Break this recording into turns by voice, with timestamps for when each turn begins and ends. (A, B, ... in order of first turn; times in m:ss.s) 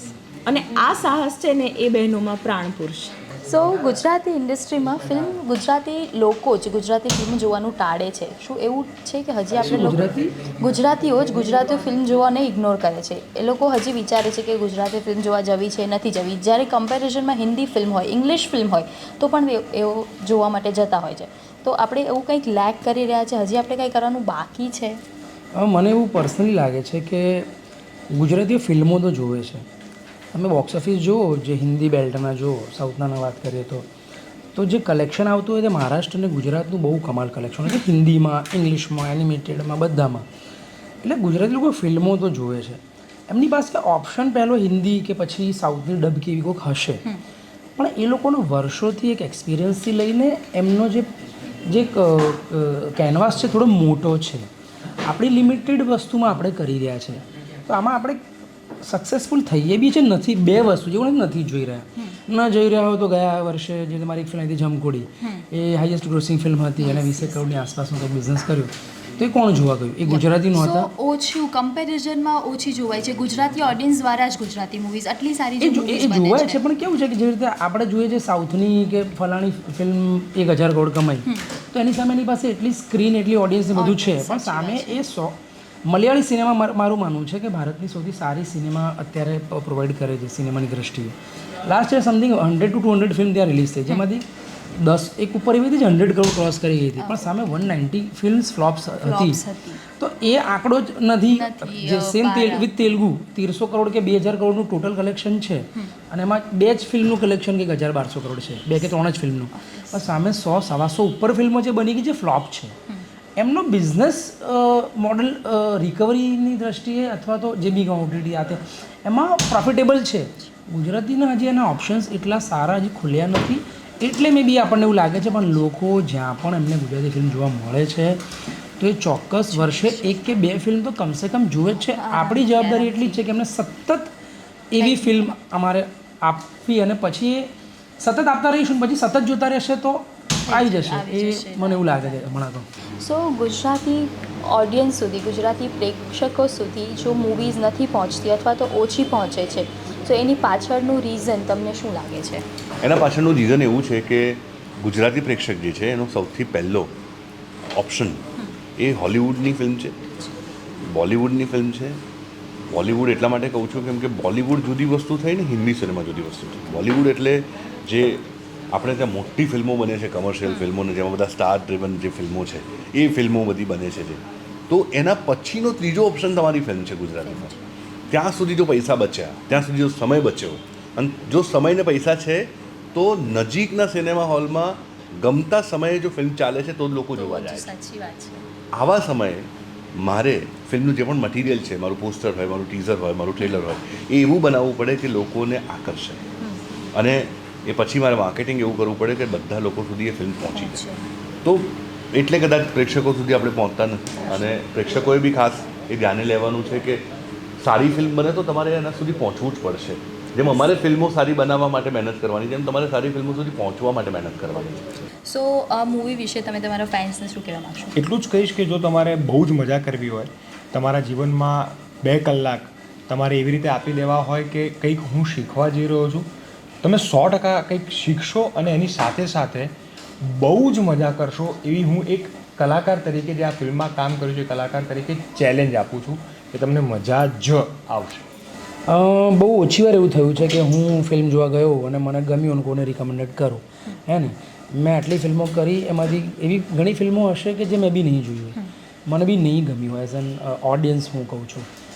0:00.5-0:03.2 A
0:03.4-0:25.0 B
0:09.6-0:10.5 C
0:25.5-0:27.5 C
0:28.1-0:29.7 C
0:30.3-0:33.9 C
0:34.6-0:40.3 C
0:41.0-0:47.1 C
0:47.8-0:54.5 C
0:55.0-0:58.2 C
0:58.8-1:10.9 C
1:06.8-1:07.4 B
1:10.0-1:16.6 B
1:15.6-1:34.3 C
1:21.3-1:21.5 B
1:23.7-1:25.0 B
1:34.8-1:52.8 C
1:37.0-1:37.4 B
1:39.0-1:39.8 B
1:41.3-1:42.8 B
1:49.6-1:50.1 B
1:53.4-2:08.2 C
2:05.3-2:05.6 B
2:08.8-2:14.1 C
2:09.6-2:10.2 B
2:11.9-2:13.2 B
2:14.7-2:22.7 C
2:14.8-2:15.3 B
2:20.5-2:22.3 B
2:23.0-2:32.4 B
2:32.8-2:36.9 D
2:37.8-2:40.0 D
2:40.9-2:42.0 D
2:42.7-2:57.6 D
2:57.3-2:57.5 B
2:58.1-3:07.7 D
3:07.1-3:08.5 B
3:08.8-3:16.3 D
3:16.4-3:16.8 B
3:16.9-3:20.8 D
3:20.5-3:21.1 B
3:21.4-3:27.1 D
3:27.6-3:34.9 D
3:35.3-3:38.0 B
3:38.0-3:46.3 E
3:46.8-3:58.3 E
3:58.9-4:11.7 C